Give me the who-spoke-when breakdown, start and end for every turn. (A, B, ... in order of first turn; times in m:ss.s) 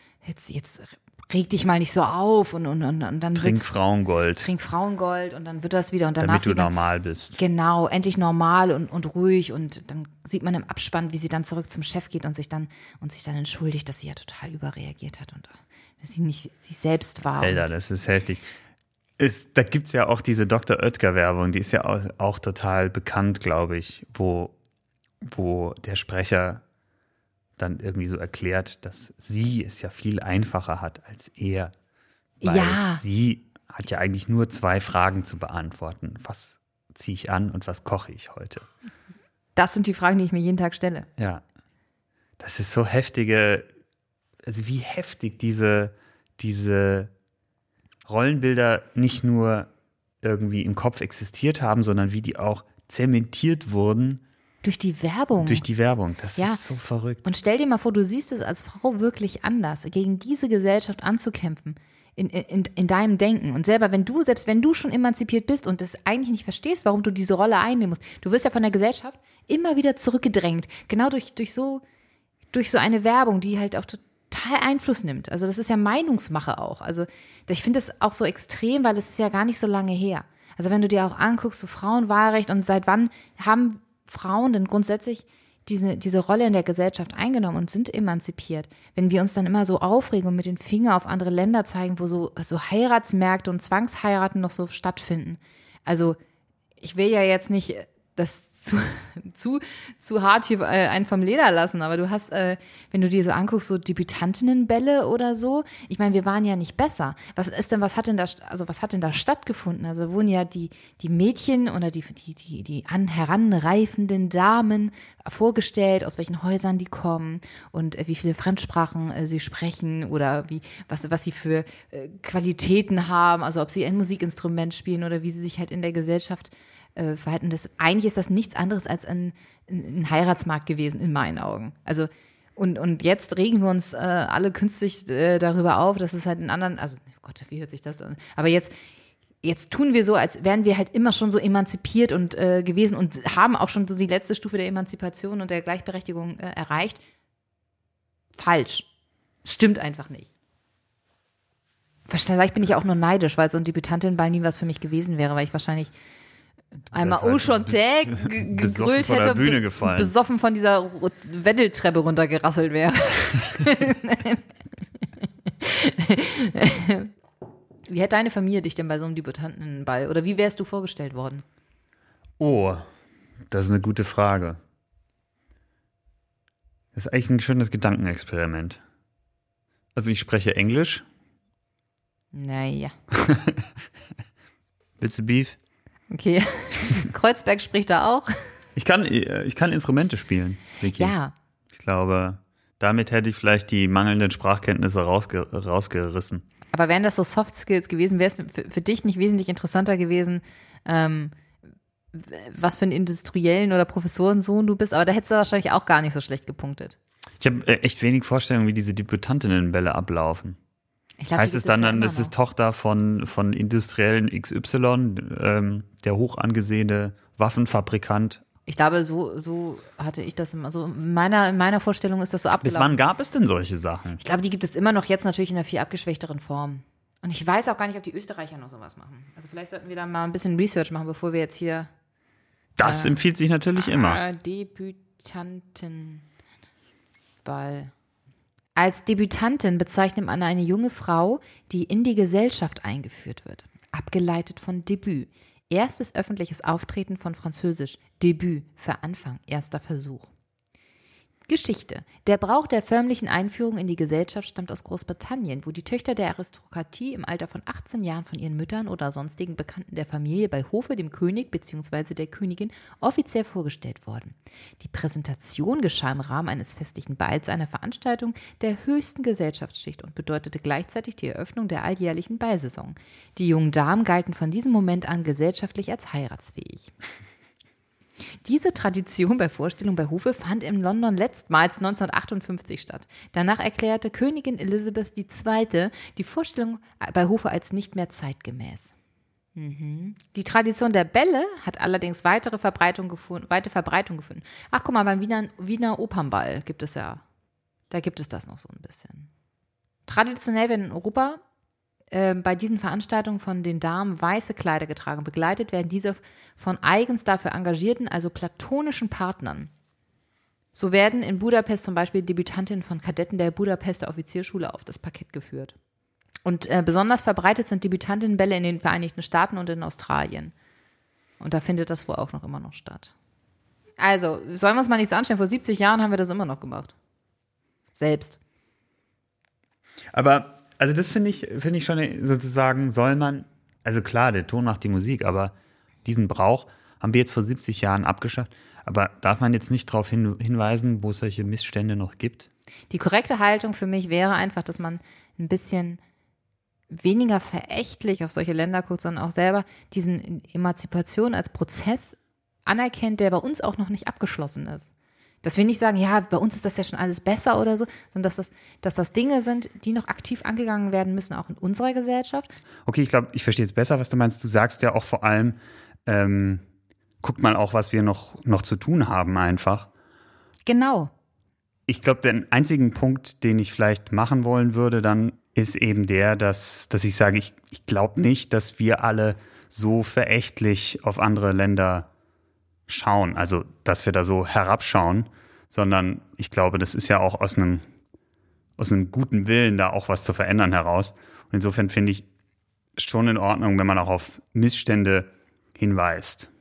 0:00.2-0:03.6 A
0:03.4-0:04.5 B
0:04.4-0:06.7 A
0:06.2-0:07.4 B
0:07.3-0:17.7 A
0:17.4-0:18.4 B
0:19.2-0:24.6 B
0:25.2-0:26.6 B
0:27.6-0:31.7 B
0:32.4-0:33.0 A
0:32.4-0:38.7 B
0:39.6-0:41.1 A
0:41.2-0:41.4 B
0:42.4-0:43.7 B
0:44.4-0:47.1 B
0:48.1-0:49.7 B
0:50.2-0:54.2 B
0:54.6-0:55.6 A
0:55.4-0:57.2 B
0:57.2-1:11.8 A
1:12.5-1:36.2 A
1:36.8-2:18.7 A
2:19.4-2:27.0 A
2:28.4-2:28.9 A
2:29.4-2:30.3 A
2:32.1-2:35.9 A
2:36.9-2:40.1 B
2:36.9-2:44.4 A
2:45.5-2:47.1 A
2:47.9-2:51.4 A
2:52.4-2:52.9 B
2:53.5-2:54.6 B
2:56.9-2:58.8 B
3:00.0-3:01.0 B
3:02.3-3:03.0 A
3:03.1-3:03.7 B
3:05.0-3:05.6 B
3:06.1-3:08.3 A
3:08.8-3:11.2 B
3:10.8-3:11.3 A
3:11.7-3:16.4 B
3:16.7-3:21.3 A
3:22.1-3:27.0 A
3:27.4-3:30.6 B
3:31.2-3:32.3 A
3:31.4-3:38.4 B
3:38.7-3:43.0 A
3:42.6-3:44.2 B
3:44.2-3:51.9 A
3:52.8-3:54.2 B
3:52.8-3:53.2 A
3:53.8-3:56.2 A
3:57.4-3:57.9 A
3:58.8-4:10.3 A
4:11.5-4:36.9 A
4:38.4-4:48.9 A
4:49.6-4:57.2 A
4:57.9-4:59.3 A
5:00.1-5:01.4 A
5:02.1-5:09.7 A
5:10.7-5:15.7 A
5:16.5-5:20.5 A
5:21.4-5:23.1 A
5:24.0-5:26.9 A
5:28.0-5:28.4 A
5:30.1-5:35.5 B
5:36.0-5:42.5 B
5:42.9-5:46.0 A
5:46.9-5:54.9 A
5:55.4-6:02.5 A
6:02.9-6:06.6 B
6:07.2-6:09.9 B
6:10.7-6:11.1 A
6:11.9-6:22.1 B
6:22.9-6:27.8 B
6:28.8-6:32.2 B
6:33.0-6:36.5 B